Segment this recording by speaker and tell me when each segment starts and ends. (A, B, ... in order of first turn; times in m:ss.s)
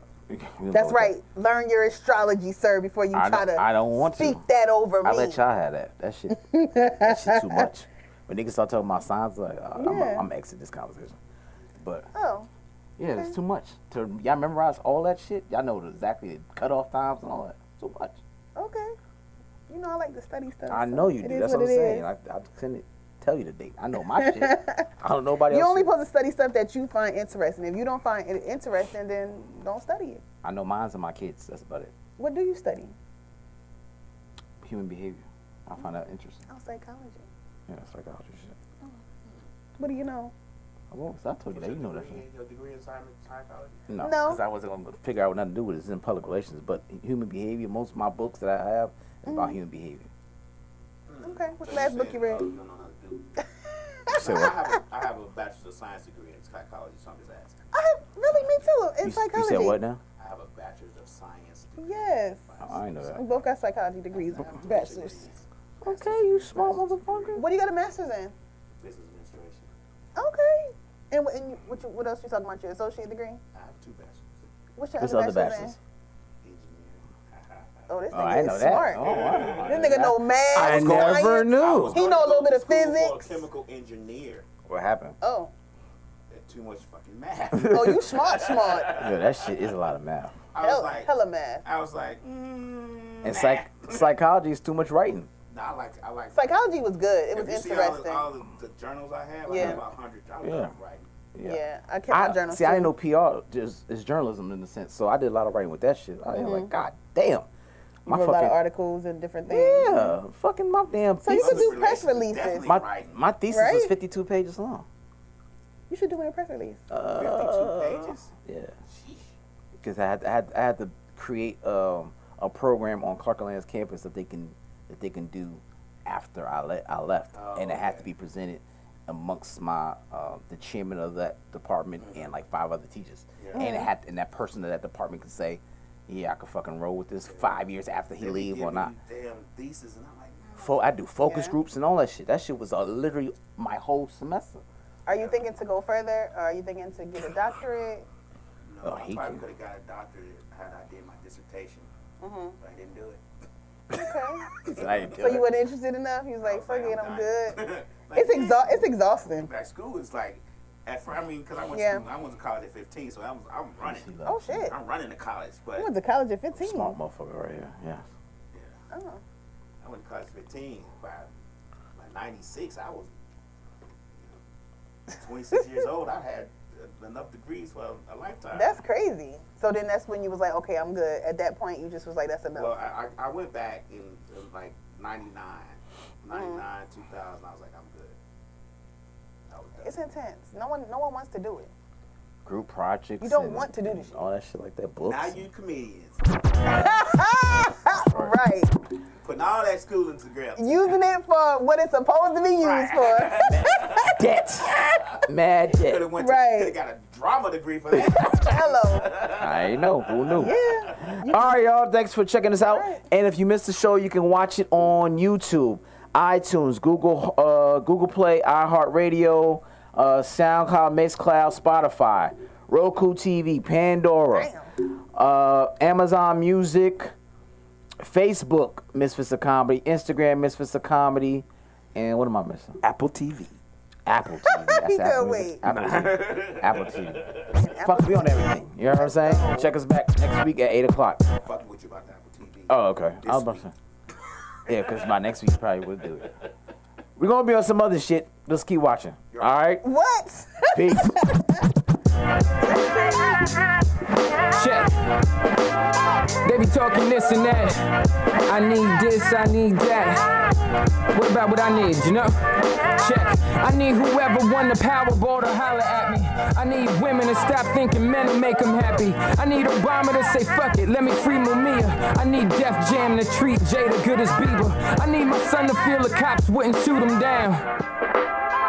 0:00.3-0:01.1 A
0:00.7-0:05.4 B
0:03.1-0:04.4 A
0:05.0-0:06.4 A
0:06.4-0:07.7 B
0:06.9-0:11.2 A
0:09.8-0:10.2 B
0:11.8-0:12.1 A
0:12.1-0:12.5 B
0:13.0-0:18.2 A
0:13.1-0:13.4 B
0:18.6-0:19.0 B
0:19.7-0:22.1 B
0:20.7-0:25.9 A
0:24.2-0:24.9 B
0:25.5-0:30.2 B
0:30.4-0:31.9 A
0:32.2-0:32.9 B
0:34.6-0:36.4 A
0:36.5-0:37.2 B
0:37.7-0:38.5 A
0:39.8-0:40.3 B
0:40.9-0:42.2 A
0:41.5-0:43.8 C
0:43.9-0:50.1 A
0:44.0-0:44.4 B
0:49.2-0:49.6 B
0:51.1-0:53.2 C
0:51.2-0:52.5 B
0:53.4-0:54.5 B
0:54.1-0:54.6 A
0:54.1-0:57.5 C
0:57.7-0:59.8 B
0:59.0-1:00.0 A
1:00.2-1:03.4 C
1:01.8-1:02.4 B
1:02.6-1:03.2 A
1:03.1-1:05.3 B
1:04.1-1:07.4 C
1:05.8-1:07.4 A
1:07.3-1:08.3 B
1:08.8-1:09.7 C
1:10.2-1:13.4 B
1:13.5-1:14.4 C
1:14.8-1:15.8 B
1:15.0-1:15.8 A
1:16.4-1:17.7 C
1:17.9-1:23.4 B
1:18.1-1:22.0 A
1:18.9-1:24.4 C
1:24.6-1:25.2 A
1:25.2-1:25.5 B
1:26.3-1:29.5 C
1:27.5-1:28.1 A
1:27.6-1:29.0 B
1:28.9-1:30.4 A
1:30.5-1:31.1 C
1:30.6-1:31.6 B
1:31.6-1:34.1 C
1:33.2-1:35.3 A
1:35.5-1:36.5 C
1:36.3-1:38.3 B
1:37.3-1:41.1 C
1:39.5-1:39.8 B
1:39.5-1:39.8 A
1:40.4-1:40.7 A
1:41.3-1:47.5 A
1:41.4-1:42.9 B
1:46.3-1:46.7 B
1:48.0-1:48.6 A
1:48.0-1:50.2 B
1:49.4-1:51.8 A
1:51.2-1:52.7 B
1:51.3-1:53.2 C
1:52.6-1:54.8 A
1:53.5-1:53.9 B
1:55.9-1:56.8 B
1:56.9-1:58.7 A
1:57.1-1:58.3 C
1:58.8-1:59.4 C
1:59.8-2:18.9 A
2:07.3-2:08.1 C
2:12.0-2:12.2 C
2:13.5-2:13.9 B
2:17.3-2:17.6 C
2:18.2-2:20.9 C
2:20.6-2:24.6 A
2:21.2-2:21.6 B
2:25.0-2:28.1 B
2:25.1-2:25.4 C
2:28.6-2:31.9 C
2:28.8-2:29.4 A
2:32.2-2:32.6 B
2:32.6-2:33.2 C
2:33.9-2:34.5 B
2:34.6-2:35.5 A
2:34.6-2:35.1 C
2:35.1-2:39.5 B
2:36.4-2:44.1 C
2:41.7-2:42.0 B
2:43.8-2:44.7 A
2:44.2-2:44.7 B
2:44.6-2:45.9 C
2:45.8-2:47.0 B
2:46.5-2:48.1 A
2:48.5-2:48.8 C
2:48.9-2:49.2 B
2:49.8-2:51.3 C
2:51.9-2:53.1 C
2:55.1-2:58.8 C
2:58.5-3:02.8 B
3:02.5-3:08.2 C
3:06.3-3:06.6 B
3:09.5-3:09.9 C
3:09.8-3:11.7 B
3:12.4-3:15.4 A
3:13.2-3:14.2 B
3:15.0-3:16.2 C
3:16.6-3:18.7 B
3:19.2-3:21.0 C
3:20.6-3:24.1 B
3:22.6-3:31.1 C
3:24.0-3:26.1 A
3:26.2-3:26.8 B
3:28.3-3:29.1 B
3:29.3-3:47.1 A
3:30.3-3:31.6 B
3:32.7-3:33.0 B
3:44.3-3:44.7 B
3:48.0-4:01.2 A
3:54.4-3:55.6 B
3:55.6-3:57.6 C
3:57.5-3:59.7 B
4:01.2-4:03.7 C
4:02.7-4:03.7 A
4:04.6-4:06.3 A
4:04.7-4:05.1 C
4:07.2-4:09.8 A
4:09.8-4:11.6 B
4:10.7-4:11.3 A
4:12.6-4:13.5 B
4:14.5-4:15.0 D
4:16.4-4:20.3 D
4:21.1-4:37.6 D